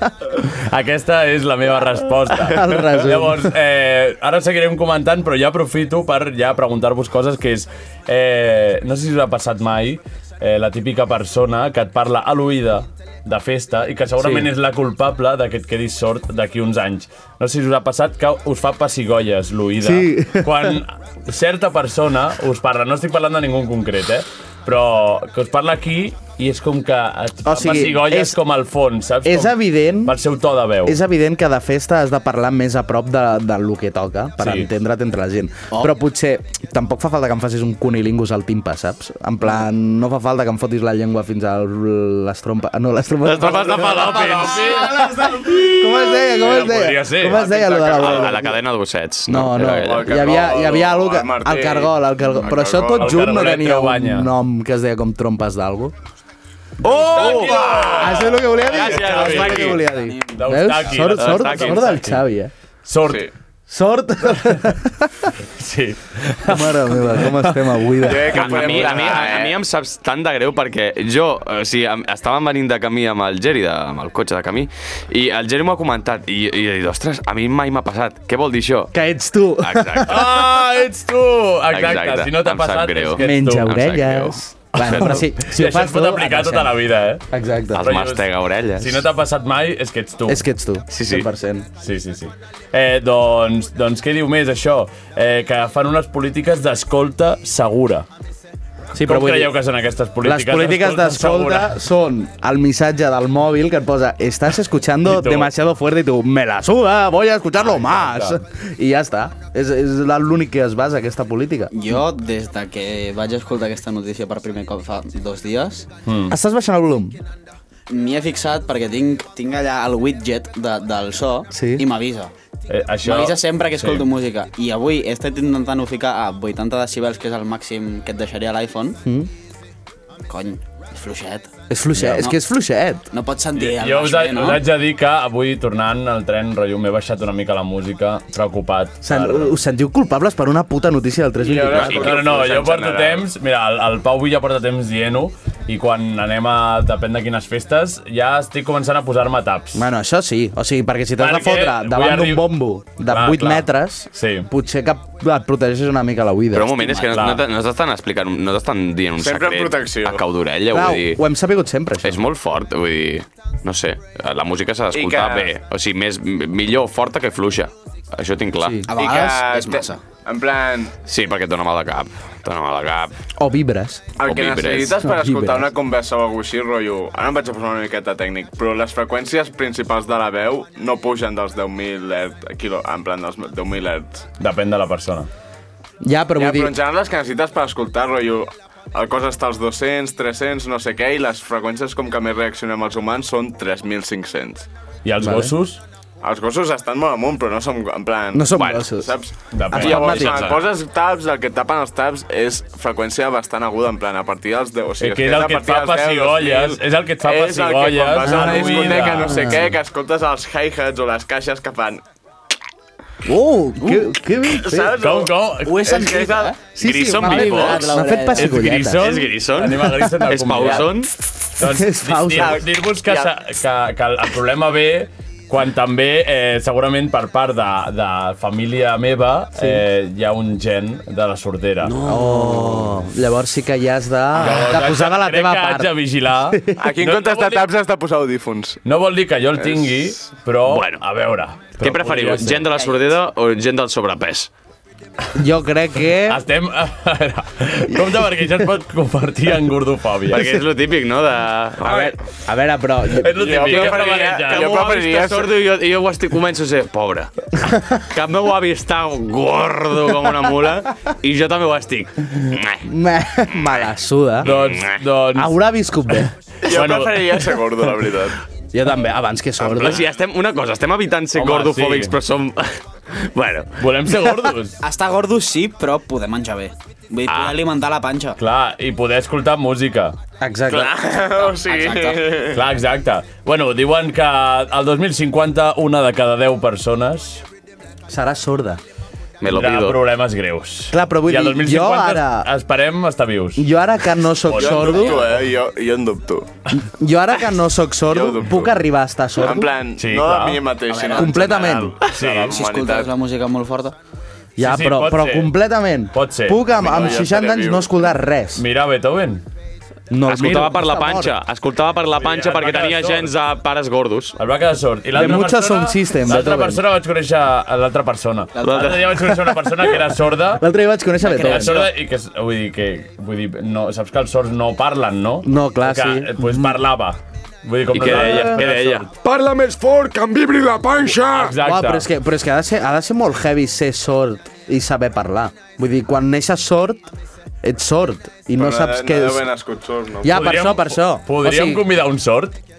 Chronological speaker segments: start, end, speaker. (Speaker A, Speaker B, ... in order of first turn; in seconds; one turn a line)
Speaker A: 0.3-31.0
Speaker B: 2.4-3.5
Speaker B: 14.2-14.5
Speaker B: 19.8-20.8
Speaker B: 27.4-28.4
Speaker B: 29.2-30.2
Speaker B: 30.8-48.6
Speaker A: 34.4-34.7
Speaker C: 43.2-44.9
Speaker A: 43.4-48.3
Speaker C: 47.9-50.2
Speaker B: 49.3-55.9
Speaker D: 49.8-53.3
Speaker A: 52.9-54.3
Speaker C: 56.8-59.8
Speaker A: 56.8-62.2
Speaker D: 57.0-58.2
Speaker B: 57.9-62.5
Speaker E: 58.9-59.2
Speaker E: 59.8-60.8
Speaker C: 61.1-62.0
Speaker A: 62.8-63.3
Speaker B: 63.7-65.3
Speaker A: 65.6-67.6
Speaker B: 66.5-69.0
Speaker D: 68.0-69.6
Speaker C: 68.3-78.9
Speaker B: 78.9-80.2
Speaker C: 79.6-80.1
Speaker A: 80.1-83.7
Speaker C: 81.7-85.2
Speaker B: 83.2-86.8
Speaker A: 84.8-87.2
Speaker B: 87.3-87.9
Speaker C: 87.7-89.0
Speaker A: 87.8-90.4
Speaker B: 90.3-91.7
Speaker C: 90.9-91.3
Speaker A: 91.8-98.1
Speaker B: 98.9-99.6
Speaker A: 99.0-101.8
Speaker B: 100.2-111.7
Speaker A: 105.0-105.5
Speaker A: 107.6-108.4
Speaker E: 111.7-115.9
Speaker A: 116.0-116.3
Speaker B: 116.3-117.2
Speaker E: 117.9-122.3
Speaker B: 121.5-121.9
Speaker A: 122.7-124.0
Speaker E: 123.0-129.0
Speaker B: 129.0-129.3
Speaker E: 130.3-132.4
Speaker B: 131.7-133.1
Speaker E: 133.1-134.7
Speaker A: 133.5-139.6
Speaker B: 139.0-142.1
Speaker D: 141.4-143.2
Speaker C: 141.8-142.2
Speaker A: 141.9-149.8
Speaker B: 149.8-157.0
Speaker A: 151.2-152.5
Speaker A: 153.1-154.5
Speaker C: 156.5-161.2
Speaker A: 157.1-157.4
Speaker D: 159.2-160.2
Speaker B: 160.7-162.2
Speaker C: 162.0-168.8
Speaker D: 164.9-165.5
Speaker B: 168.6-168.9
Speaker E: 168.9-170.0
Speaker D: 168.9-170.9
Speaker C: 171.1-173.1
Speaker B: 173.4-174.1
Speaker D: 174.2-184.2
Speaker C: 174.2-175.0
Speaker B: 175.0-175.7
Speaker A: 184.4-185.3
Speaker B: 186.0-186.7
Speaker D: 186.4-194.7
Speaker A: 195.0-195.8
Speaker B: 195.2-195.5
Speaker D: 196.2-212.0
Speaker B: 198.3-199.1
Speaker C: 198.5-198.9
Speaker A: 199.5-200.2
Speaker B: 199.7-200.4
Speaker C: 199.8-200.6
Speaker A: 205.0-209.5
Speaker B: 208.2-209.7
Speaker B: 213.2-215.0
Speaker E: 213.8-214.1
Speaker D: 214.5-216.5
Speaker A: 214.9-216.0
Speaker E: 215.6-216.6
Speaker C: 216.7-217.9
Speaker B: 216.8-219.2
Speaker E: 217.2-218.6
Speaker A: 218.3-221.0
Speaker C: 219.0-221.1
Speaker A: 221.6-231.9
Speaker B: 221.6-222.6
Speaker D: 222.4-223.3
Speaker B: 229.6-229.8
Speaker E: 232.0-232.7
Speaker B: 232.0-236.8
Speaker A: 234.4-237.7
Speaker D: 236.8-238.8
Speaker A: 238.8-242.7
Speaker D: 239.6-240.1
Speaker C: 240.7-241.0
Speaker C: 241.8-244.5
Speaker E: 242.7-243.0
Speaker B: 245.3-246.4
Speaker A: 246.2-250.6
Speaker C: 250.3-252.1
Speaker B: 251.8-253.5
Speaker A: 253.2-254.8
Speaker D: 253.3-255.5
Speaker C: 253.7-262.9
Speaker B: 262.9-264.5
Speaker A: 264.4-265.6
Speaker C: 264.4-265.0
Speaker B: 265.4-266.3
Speaker D: 266.6-268.4
Speaker A: 266.7-267.5
Speaker B: 268.7-270.0
Speaker C: 269.6-274.3
Speaker A: 271.4-272.1
Speaker A: 273.8-274.8
Speaker E: 274.8-278.4
Speaker C: 277.2-277.6
Speaker A: 278.4-280.1
Speaker B: 280.4-280.9
Speaker D: 280.7-282.6
Speaker E: 281.4-282.5
Speaker A: 282.5-287.4
Speaker B: 288.1-288.8
Speaker C: 289.4-290.0
Speaker A: 289.5-293.7
Speaker B: 290.9-292.5
Speaker B: 293.6-295.3
Speaker A: 294.4-295.2
Speaker D: 294.5-296.5
Speaker B: 296.8-299.7
Speaker D: 298.1-298.7
Speaker D: 299.4-303.1
Speaker A: 300.0-300.6
Speaker E: 300.9-301.6
Speaker B: 301.1-302.0
Speaker A: 302.1-302.6
Speaker E: 302.5-303.9
Speaker B: 304.6-308.6
Speaker A: 304.6-305.5
Speaker A: 306.1-306.6
Speaker D: 306.7-307.9
Speaker A: 308.6-309.4
Speaker B: 310.1-311.4
Speaker C: 310.2-314.4
Speaker A: 312.1-313.3
Speaker A: 314.4-320.6
Speaker B: 315.1-316.8
Speaker E: 318.5-319.3
Speaker C: 318.6-319.0
Speaker B: 320.5-321.9
Speaker E: 321.2-321.9
Speaker A: 321.4-329.1
Speaker B: 325.4-326.8
Speaker C: 327.9-329.1
Speaker B: 328.0-328.6
Speaker F: 329.2-331.6
Speaker A: 331.3-332.1
Speaker B: 331.6-337.1
Speaker B: 337.6-339.4
Speaker D: 338.6-340.4
Speaker B: 340.2-341.9
Speaker A: 340.3-342.6